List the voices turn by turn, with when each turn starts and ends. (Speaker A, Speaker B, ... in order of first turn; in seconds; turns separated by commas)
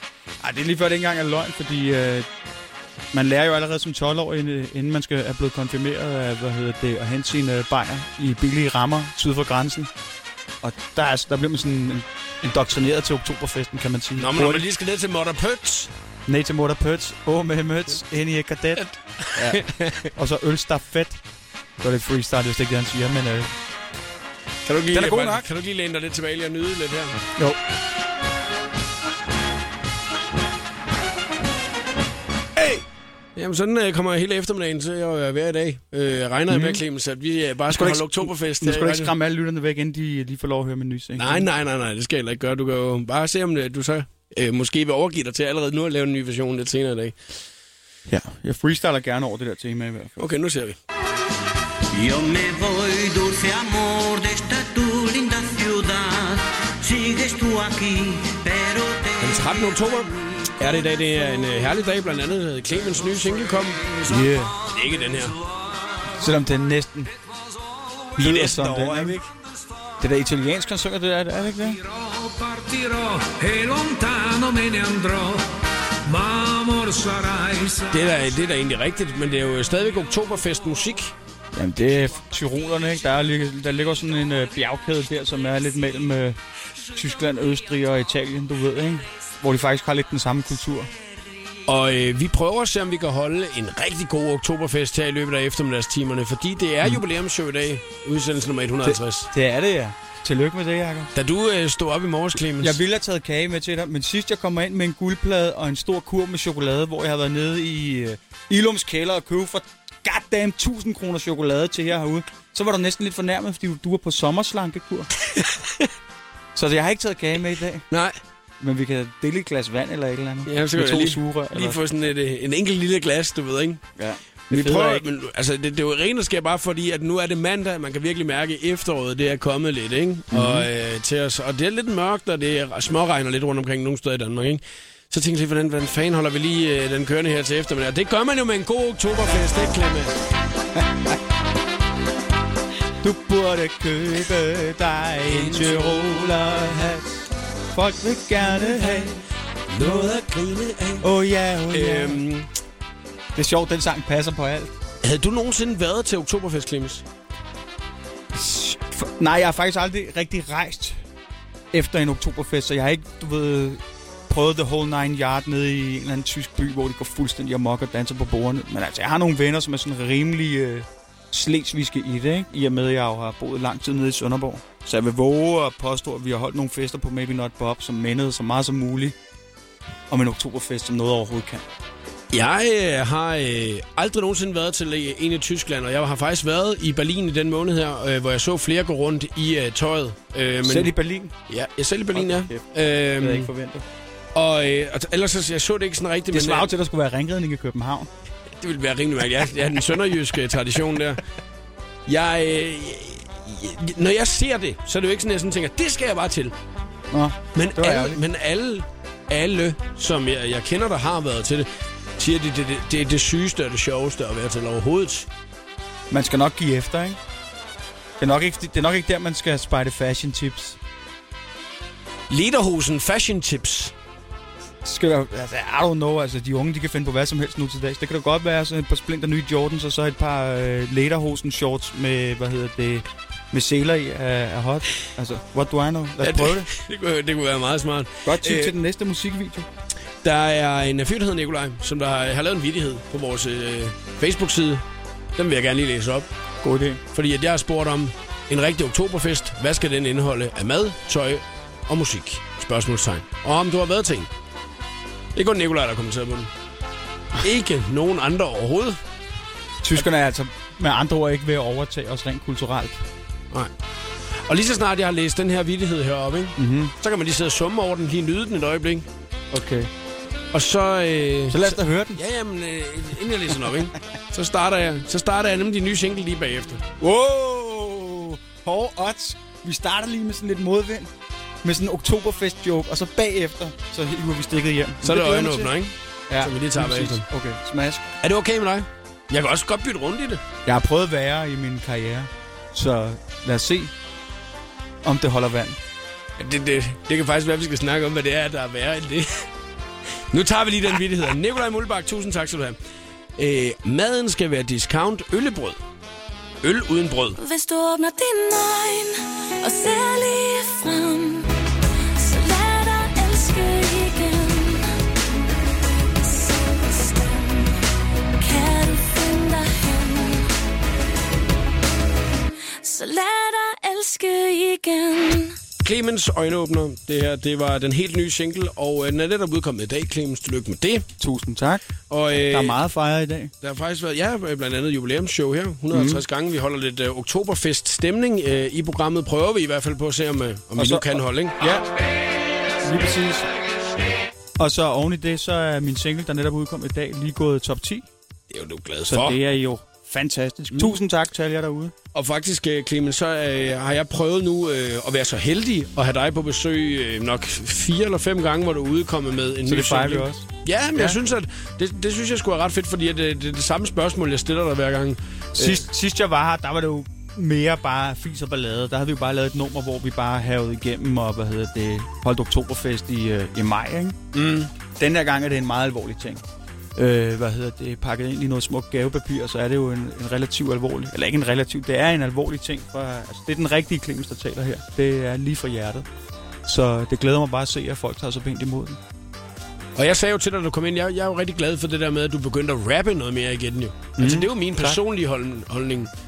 Speaker A: 0.4-2.3, Speaker A: 3.1-9.9, Speaker A: 10.6-14.6, Speaker B: 14.2-15.9, Speaker A: 16.3-18.8, Speaker B: 18.8-20.1, Speaker A: 19.4-21.2, Speaker A: 21.8-23.5, Speaker B: 24.7-27.2, Speaker A: 24.9-25.5, Speaker B: 33.4-39.1, Speaker A: 36.5-36.8, Speaker A: 37.7-41.5, Speaker B: 41.2-47.2, Speaker A: 48.1-50.2, Speaker B: 50.2-50.8, Speaker C: 51.9-60.2, Speaker B: 59.2-64.0, Speaker A: 64.1-64.6, Speaker B: 64.6-65.4, Speaker A: 66.1-67.1, Speaker B: 68.2-69.3, Speaker A: 68.2-69.2, Speaker A: 70.0-71.8, Speaker D: 71.9-75.5, Speaker D: 76.0-78.0, Speaker B: 77.9-81.1, Speaker A: 81.5-86.4, Speaker A: 86.9-90.9, Speaker B: 91.7-99.3, Speaker A: 98.8-101.1, Speaker B: 101.2-102.8, Speaker A: 102.6-115.1, Speaker B: 115.4-115.9, Speaker A: 116.5-117.9, Speaker B: 117.9-118.2, Speaker A: 118.6-121.8, Speaker B: 120.5-123.8, Speaker A: 124.0-125.0, Speaker B: 124.5-140.1, Speaker A: 130.3-130.7, Speaker A: 143.0-149.2, Speaker B: 145.2-146.3, Speaker B: 149.7-151.1, Speaker A: 149.8-150.2, Speaker A: 151.0-152.2, Speaker B: 151.7-152.5, Speaker A: 153.3-154.7, Speaker B: 155.0-157.0, Speaker A: 158.3-161.0, Speaker A: 161.7-179.2, Speaker A: 180.1-181.6, Speaker B: 182.3-190.9, Speaker A: 190.6-191.3, Speaker B: 191.5-193.5, Speaker A: 192.1-192.7, Speaker A: 193.2-193.8, Speaker B: 194.3-196.7, Speaker A: 196.3-198.1, Speaker B: 198.6-201.2, Speaker B: 202.1-206.5, Speaker A: 207.1-208.2, Speaker B: 207.5-211.7, Speaker B: 212.2-215.3, Speaker A: 216.1-217.2, Speaker A: 218.2-220.8, Speaker B: 222.3-223.9, Speaker A: 224.8-236.7, Speaker B: 236.2-238.8, Speaker A: 238.2-239.7, Speaker B: 240.2-244.8, Speaker B: 245.4-246.3, Speaker A: 246.6-247.0, Speaker B: 247.1-254.3, Speaker B: 255.3-256.5, Speaker B: 257.4-259.0, Speaker A: 259.8-263.0, Speaker B: 264.5-269.1, Speaker A: 266.6-266.9, Speaker A: 269.5-269.9, Speaker B: 270.5-276.8, Speaker A: 271.5-272.2, Speaker A: 277.0-281.1, Speaker A: 281.6-285.7, Speaker B: 285.0-287.2, Speaker A: 286.3-288.1, Speaker B: 288.2-290.4, Speaker A: 290.6-293.9, Speaker A: 295.0-295.8, Speaker B: 296.4-299.5, Speaker B: 300.3-302.8, Speaker B: 303.4-305.8, Speaker B: 306.6-307.4, Speaker E: 307.4-311.5, Speaker E: 312.2-315.0, Speaker E: 316.2-317.8, Speaker E: 318.4-320.5, Speaker E: 322.8-325.6, Speaker B: 325.8-331.1, Speaker A: 331.2-333.5, Speaker B: 332.1-332.8, Speaker B: 333.6-341.6, Speaker A: 335.9-336.2, Speaker A: 340.8-341.9, Speaker A: 342.8-343.5, Speaker A: 344.6-348.1, Speaker B: 348.5-349.4, Speaker A: 349.1-351.9, Speaker B: 352.1-365.8, Speaker A: 359.7-361.2, Speaker A: 365.6-376.4, Speaker B: 374.3-374.7, Speaker A: 377.0-386.1, Speaker A: 386.6-389.0, Speaker B: 390.0-396.1, Speaker A: 394.2-395.0